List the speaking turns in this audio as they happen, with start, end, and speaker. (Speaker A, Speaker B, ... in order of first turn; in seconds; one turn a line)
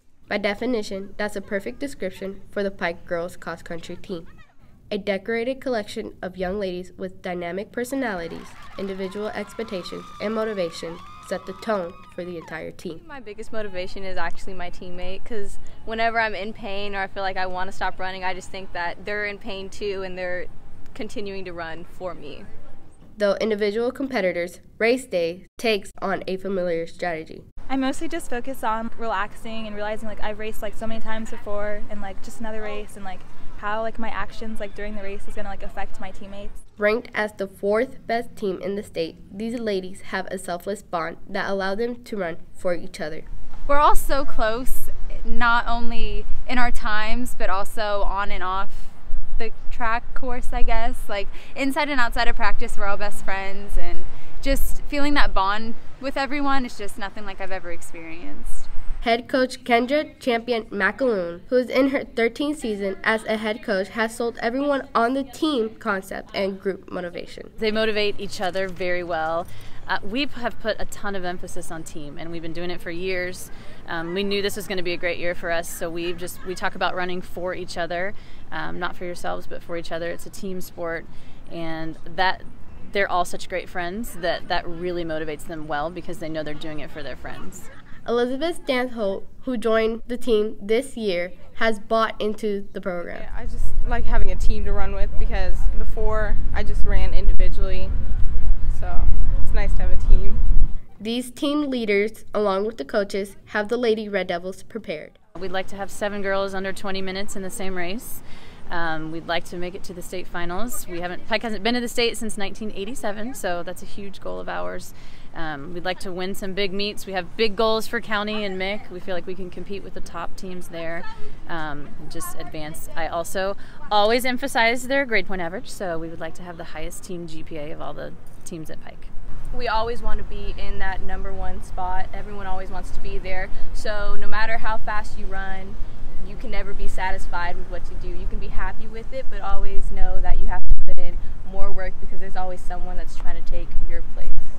Speaker A: 0.3-4.3
Speaker A: 4.9-13.0
Speaker B: 13.0-22.5
Speaker A: 23.2-27.4
Speaker C: 27.7-36.6
Speaker A: 36.8-43.3
Speaker D: 43.7-58.7
Speaker A: 59.0-67.5
Speaker E: 67.6-87.7
Speaker A: 88.1-93.2
Speaker F: 93.0-98.0
Speaker F: 98.7-100.5
Speaker A: 101.0-105.2
Speaker E: 105.4-129.1
Speaker B: 129.5-144.4